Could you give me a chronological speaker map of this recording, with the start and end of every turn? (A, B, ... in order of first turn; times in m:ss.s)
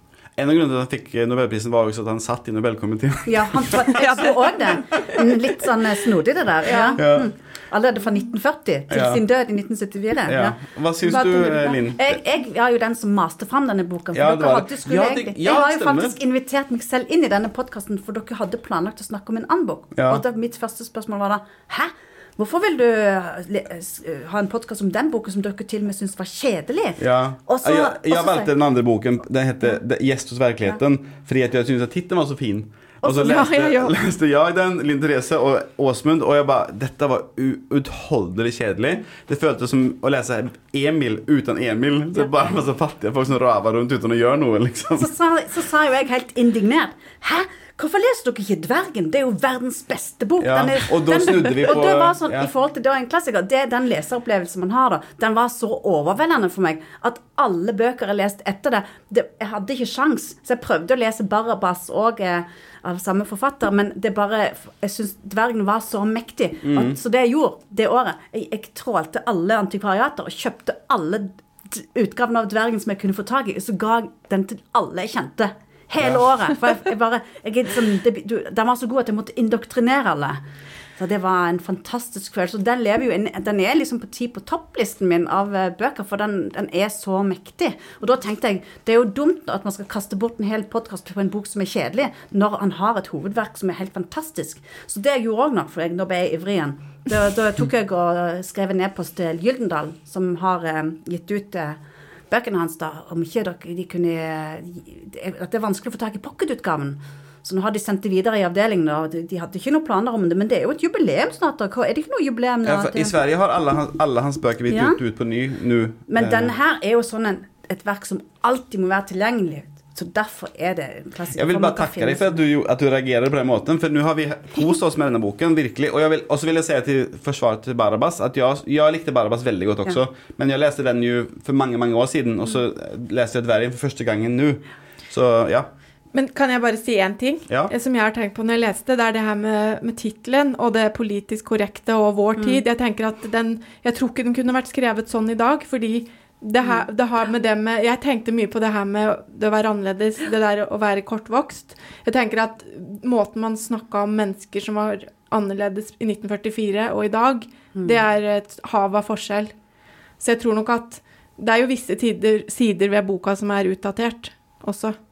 0:00.4-0:04.3 A
0:03.2-0:10.6 B
0:06.6-0:07.0 C
0:07.0-0:07.3 A
0:08.9-0:09.2 A
0:10.3-0:12.2 A
0:11.1-0:28.5 B
0:11.2-0:11.7 C
0:14.1-0:16.2 A
0:20.0-0:20.2 A
0:27.0-0:45.1 A
0:33.0-0:33.9 C
0:44.9-1:20.4 B
0:50.4-0:52.5 A
1:06.6-1:07.0 A
1:21.0-1:41.8 B
1:42.3-1:53.1 B
1:52.6-1:56.5 A
1:54.7-1:55.0 B
1:56.1-2:02.4 B
2:01.4-2:15.7 A
2:16.1-2:39.5 C
2:40.2-2:44.9 C